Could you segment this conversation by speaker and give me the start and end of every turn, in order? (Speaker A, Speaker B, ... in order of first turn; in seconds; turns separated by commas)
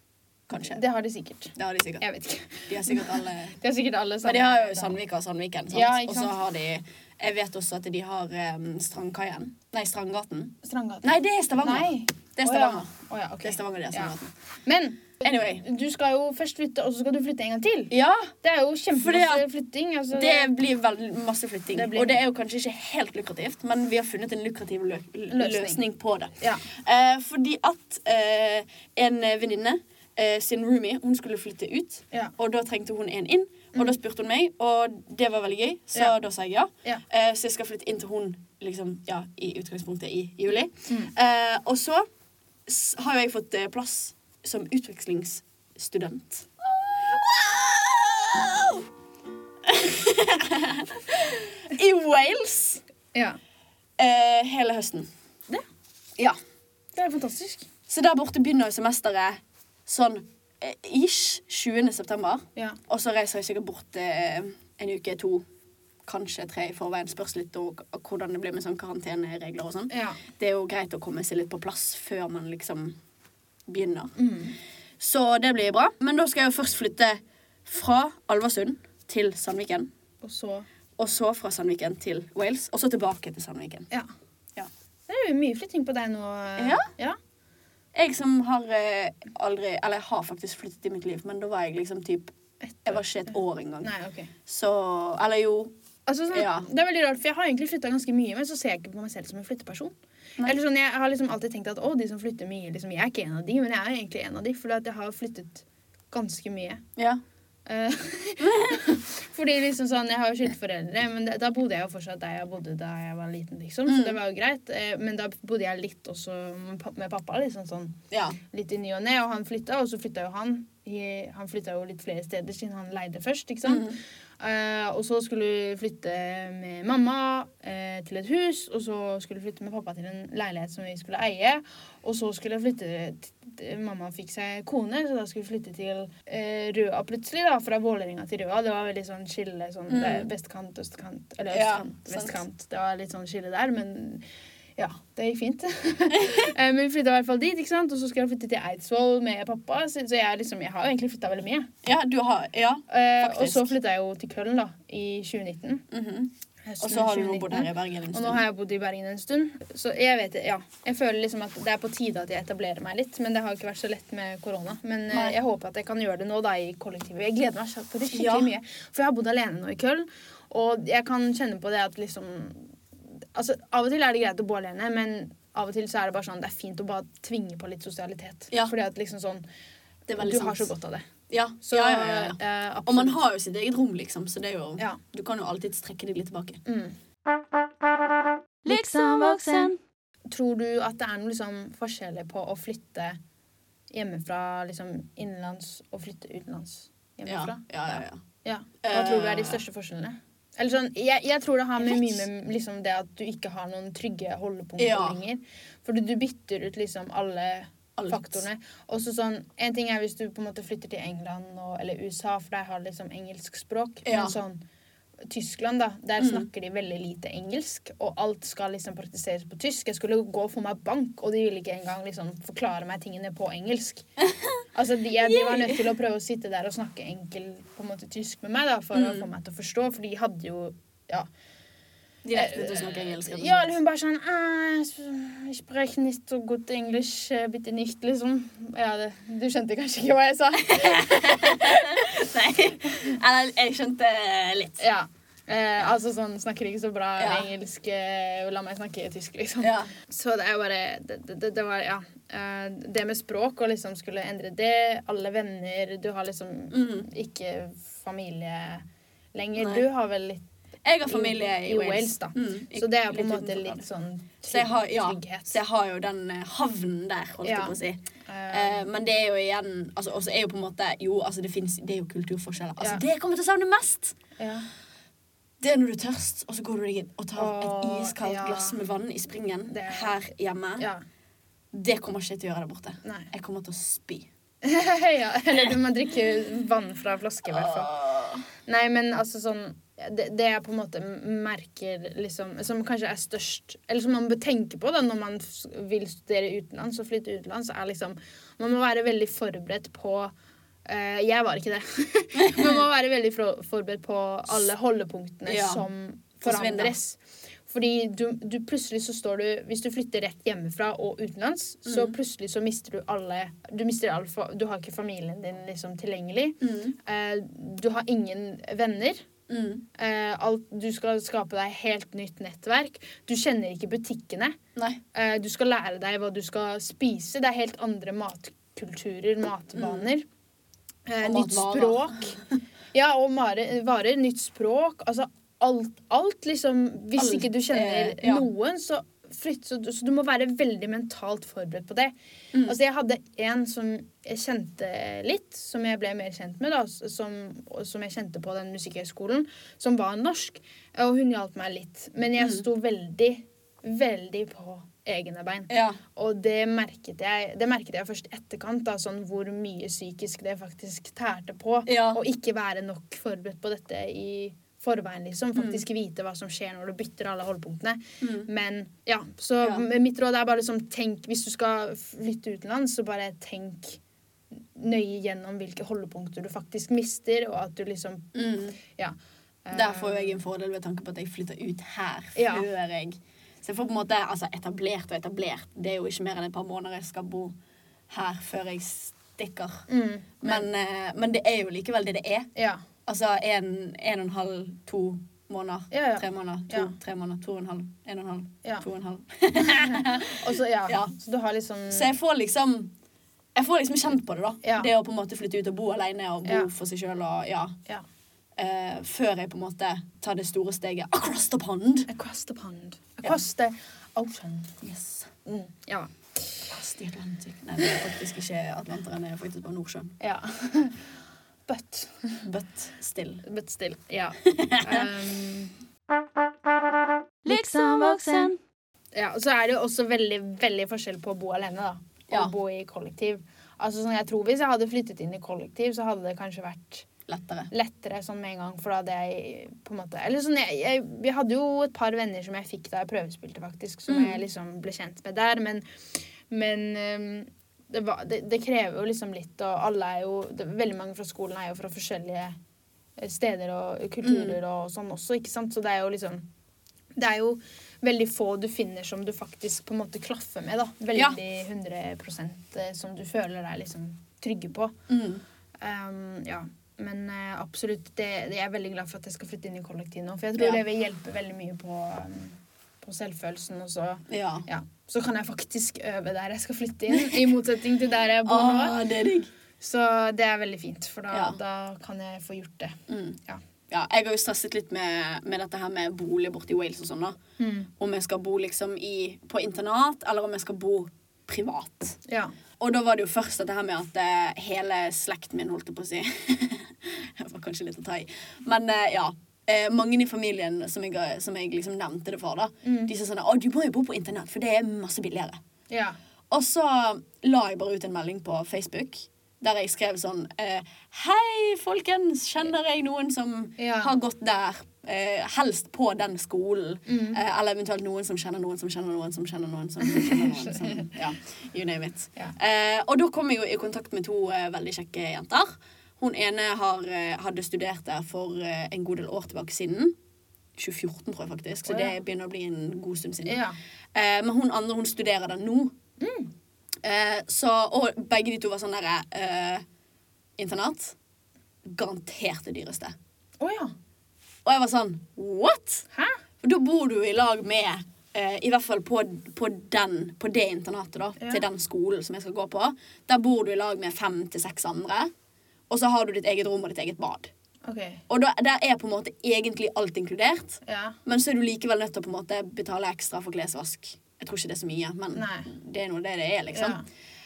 Speaker A: 0.5-0.8, Speaker B: 0.5-5.0, Speaker A: 1.6-2.0, Speaker A: 2.7-3.6, Speaker A: 4.2-12.9, Speaker B: 5.7-6.4, Speaker B: 10.6-20.5, Speaker A: 13.4-14.3, Speaker A: 15.2-15.6, Speaker A: 17.9-18.3, Speaker A: 19.0-19.4, Speaker A: 20.1-42.0, Speaker B: 21.7-22.2, Speaker B: 25.3-25.8, Speaker B: 26.4-26.7, Speaker B: 33.7-34.0, Speaker A: 42.7-48.9, Speaker A: 49.6-52.8, Speaker A: 54.0-55.1, Speaker B: 57.0-57.7, Speaker A: 57.9-65.5, Speaker A: 66.0-73.0, Speaker B: 69.9-70.2, Speaker A: 73.7-74.2, Speaker B: 74.2-74.6, Speaker A: 75.0-79.9, Speaker B: 80.2-80.7, Speaker A: 81.0-83.9, Speaker B: 85.1-87.2, Speaker A: 86.6-86.9, Speaker A: 87.9-92.3, Speaker B: 92.6-94.3, Speaker A: 92.8-93.9, Speaker A: 94.5-95.7, Speaker B: 96.1-106.8, Speaker A: 96.3-96.7, Speaker A: 107.0-107.2, Speaker B: 107.7-118.0, Speaker A: 108.4-108.9, Speaker A: 113.9-114.2, Speaker A: 118.1-118.4, Speaker B: 118.5-144.2, Speaker A: 123.6-124.0, Speaker A: 139.9-140.3, Speaker A: 141.5-142.4, Speaker B: 144.8-151.7, Speaker A: 146.1-146.5, Speaker A: 151.8-153.7, Speaker B: 152.9-155.8, Speaker A: 155.9-158.4, Speaker B: 156.7-172.8, Speaker A: 165.1-165.4, Speaker A: 168.1-168.5, Speaker B: 173.3-179.4, Speaker A: 180.1-180.7, Speaker B: 180.1-181.1, Speaker A: 181.3-186.6, Speaker B: 181.6-183.2, Speaker B: 186.7-186.9, Speaker B: 188.7-189.8, Speaker A: 188.7-189.6, Speaker B: 190.3-193.2, Speaker B: 193.9-214.6, Speaker A: 197.3-198.2, Speaker A: 198.8-199.6, Speaker A: 201.8-202.2, Speaker A: 204.8-205.2, Speaker A: 208.0-208.4, Speaker A: 214.1-214.4, Speaker B: 215.3-224.1, Speaker A: 216.2-216.5, Speaker B: 224.8-231.3, Speaker A: 225.2-225.8, Speaker A: 228.9-229.3, Speaker A: 232.2-233.7, Speaker B: 232.3-242.1, Speaker A: 240.7-244.8, Speaker B: 244.8-260.4, Speaker A: 247.2-247.5, Speaker A: 249.6-249.9, Speaker A: 256.7-257.1, Speaker A: 259.6-259.9, Speaker A: 260.9-263.8, Speaker B: 261.1-265.6, Speaker A: 264.5-274.2, Speaker B: 267.4-268.8, Speaker B: 274.4-274.7, Speaker A: 275.6-280.9, Speaker B: 277.4-278.8, Speaker B: 279.7-280.2, Speaker A: 281.7-284.3, Speaker B: 283.0-283.3, Speaker B: 284.6-287.9, Speaker A: 287.5-288.4, Speaker B: 288.6-300.3, Speaker B: 300.9-319.3, Speaker A: 302.4-302.8, Speaker A: 305.5-305.8, Speaker A: 306.4-307.0, Speaker A: 311.9-312.2, Speaker A: 316.6-317.0, Speaker A: 319.5-319.9, Speaker B: 320.0-324.6, Speaker A: 324.8-325.0, Speaker B: 325.1-330.2, Speaker A: 329.8-330.1, Speaker B: 331.1-332.4, Speaker A: 331.2-332.4, Speaker B: 332.9-374.0, Speaker A: 337.2-338.5, Speaker A: 352.4-352.6, Speaker A: 355.7-356.0, Speaker A: 361.9-362.2, Speaker A: 365.6-365.8, Speaker A: 368.2-368.5, Speaker B: 374.7-380.4, Speaker A: 378.3-378.8, Speaker A: 379.7-387.5, Speaker B: 382.4-382.7, Speaker A: 388.1-389.8, Speaker B: 389.9-390.7, Speaker A: 390.4-392.5, Speaker B: 392.6-392.8, Speaker A: 393.1-401.1, Speaker B: 395.9-396.9, Speaker B: 399.6-402.1, Speaker A: 401.9-402.9, Speaker A: 403.6-407.8, Speaker B: 404.6-404.9, Speaker A: 408.6-412.1, Speaker B: 412.1-414.8, Speaker A: 414.8-415.3, Speaker B: 415.5-416.7, Speaker A: 416.7-420.1, Speaker B: 420.2-421.1, Speaker B: 421.7-422.5, Speaker A: 422.4-423.4, Speaker B: 423.4-425.8, Speaker A: 424.5-425.1, Speaker A: 427.4-428.6, Speaker B: 427.8-428.2, Speaker B: 429.1-437.1, Speaker A: 437.3-437.7, Speaker B: 437.7-445.9, Speaker A: 444.1-444.4, Speaker B: 446.5-452.6, Speaker B: 453.2-456.5, Speaker A: 454.2-454.6, Speaker B: 457.2-464.9, Speaker A: 465.1-465.4, Speaker B: 465.8-479.0, Speaker A: 470.6-470.8, Speaker A: 474.3-474.7, Speaker A: 477.1-477.5, Speaker A: 478.4-479.5, Speaker B: 479.8-483.6, Speaker A: 481.3-481.6, Speaker A: 483.1-483.4, Speaker A: 483.9-487.4, Speaker B: 487.6-487.9, Speaker A: 488.0-492.2, Speaker B: 492.3-492.5, Speaker A: 492.8-505.6, Speaker B: 502.8-503.1, Speaker B: 505.9-506.2, Speaker A: 506.5-530.1, Speaker B: 513.8-514.1, Speaker B: 517.1-517.4, Speaker B: 520.0-521.1, Speaker A: 530.8-533.6, Speaker B: 531.9-532.2, Speaker B: 533.5-533.8, Speaker A: 534.1-535.9, Speaker B: 536.2-536.5, Speaker A: 537.0-539.8, Speaker A: 540.6-541.2, Speaker A: 541.9-543.1, Speaker B: 543.6-543.9, Speaker A: 544.6-546.0, Speaker B: 546.1-546.4, Speaker A: 546.6-555.3, Speaker A: 555.9-557.5, Speaker B: 557.9-558.2, Speaker A: 558.3-567.0, Speaker B: 560.9-561.2, Speaker B: 565.3-565.7, Speaker B: 566.7-567.0